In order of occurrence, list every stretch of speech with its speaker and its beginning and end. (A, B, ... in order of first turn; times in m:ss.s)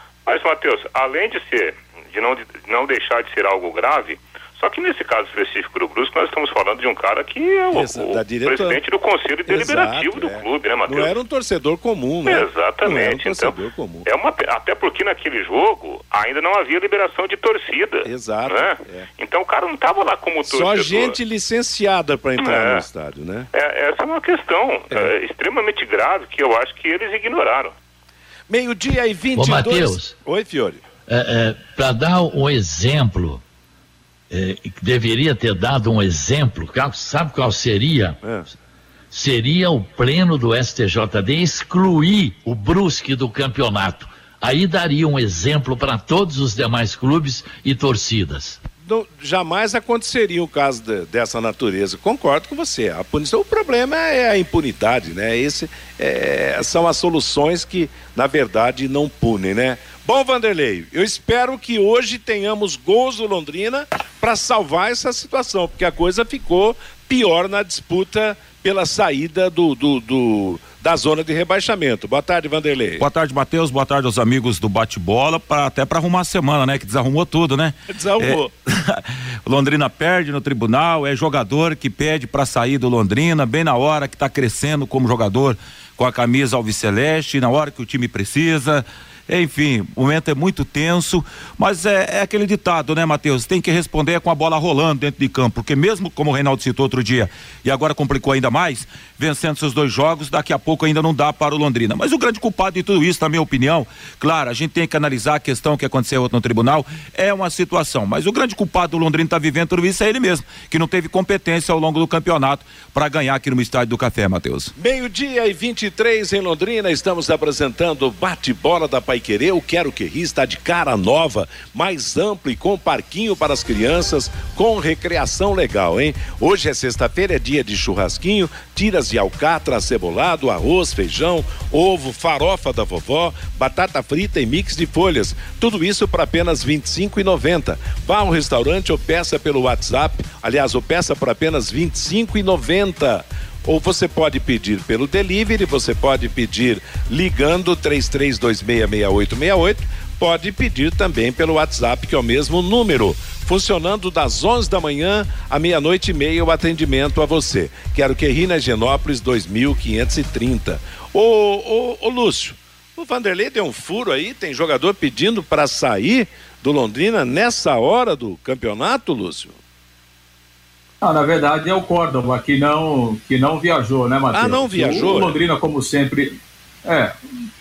0:00.2-0:11.1 A
0:07.7-0:08.8 B
0:09.5-0:14.0 B
0:12.2-0:21.2 A
0:18.0-0:19.1 B
0:20.4-0:23.5 B
0:22.4-0:22.8 A
0:23.5-0:27.7 A
0:28.5-0:30.8 B
0:29.4-0:30.1 C
0:31.1-0:33.4 C
0:34.3-0:38.2 C
0:38.2-0:38.5 B
0:39.1-0:48.6 C
0:48.8-1:13.0 B
1:13.0-1:54.7 D
1:17.9-1:18.5 B
1:54.8-2:49.6 B
2:51.0-2:57.2 E
2:54.3-2:55.4 B